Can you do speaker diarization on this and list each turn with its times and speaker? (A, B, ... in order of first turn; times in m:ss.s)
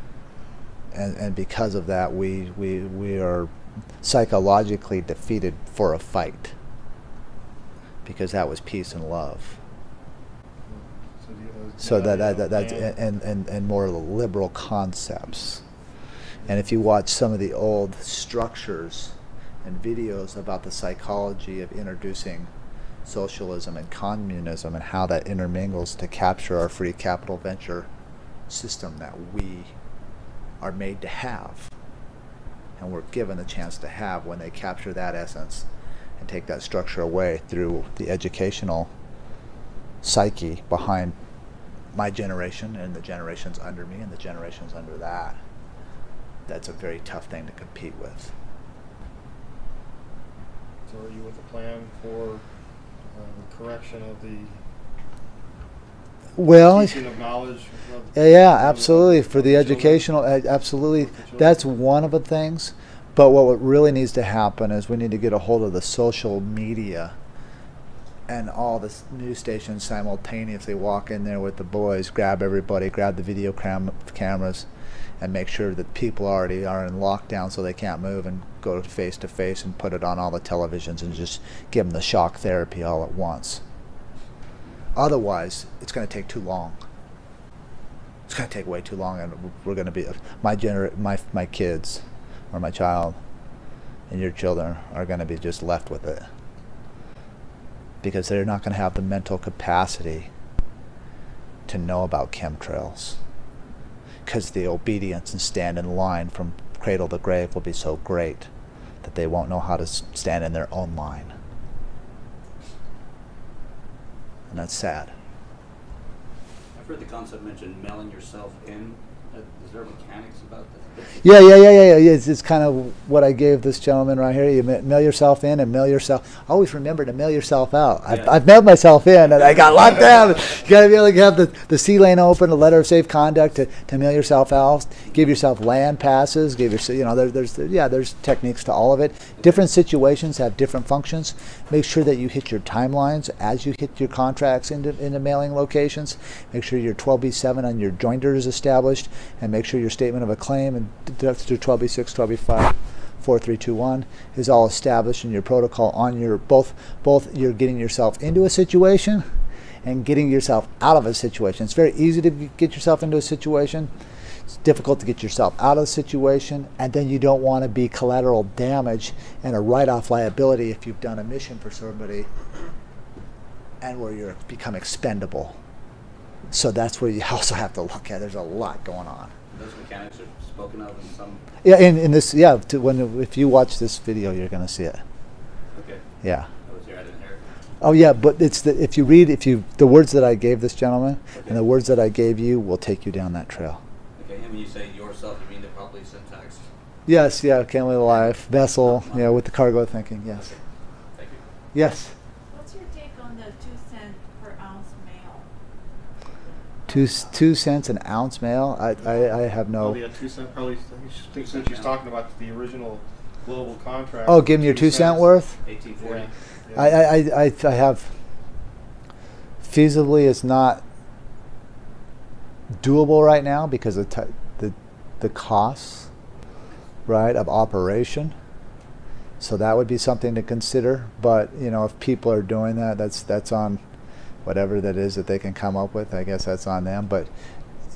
0:00.9-0:03.5 A
0:04.0-0:06.5 A
0:08.0-0:09.6 A
0:10.7-0:13.0 B
0:11.8-0:15.6 A
0:16.4-0:22.5 A
0:23.0-0:27.9 A
0:28.5-0:29.7 A
0:30.6-0:31.7 A
0:32.8-0:35.7 A
0:36.2-0:38.9 A
0:40.0-0:41.2 A
0:41.9-0:45.4 A
0:46.5-0:48.3 A
0:50.9-0:52.4 B
0:53.1-0:54.6 B
0:56.4-0:57.0 A
0:56.4-1:00.1 B
0:58.1-1:07.2 A
1:01.0-1:01.6 B
1:08.3-1:14.7 A
1:15.2-1:23.6 A
1:25.0-1:26.8 A
1:28.3-1:33.2 A
1:34.1-1:36.3 A
1:38.0-1:40.3 A
1:41.7-1:43.2 A
1:44.2-1:48.5 A
1:49.0-1:51.3 A
1:54.5-1:55.1 A
1:56.7-2:01.2 C
2:01.2-2:39.2 A
2:08.1-2:08.3 C
2:39.8-2:43.9 A
2:44.6-2:52.3 A
2:53.8-2:55.6 A
2:56.5-2:59.3 A
2:59.5-3:01.4 C
3:01.6-3:05.0 A
3:05.7-3:06.0 C
3:06.2-3:06.5 A
3:06.6-3:07.4 C
3:07.8-3:13.8 A
3:11.3-3:11.6 C
3:14.2-3:16.6 C
3:17.0-3:20.5 A
3:18.9-3:19.4 C
3:20.3-3:20.6 C
3:21.1-3:21.5 C
3:21.7-3:22.1 A
3:22.5-3:25.5 D
3:26.9-3:30.0 A
3:29.8-3:35.3 B
3:31.3-3:31.9 C
3:34.3-3:35.6 A
3:35.6-3:36.3 C
3:36.0-3:37.0 B
3:36.7-3:38.1 A
3:39.6-3:40.8 A
3:42.8-3:46.1 A
3:47.1-3:48.3 A
3:49.4-3:53.8 A
3:54.4-3:57.3 A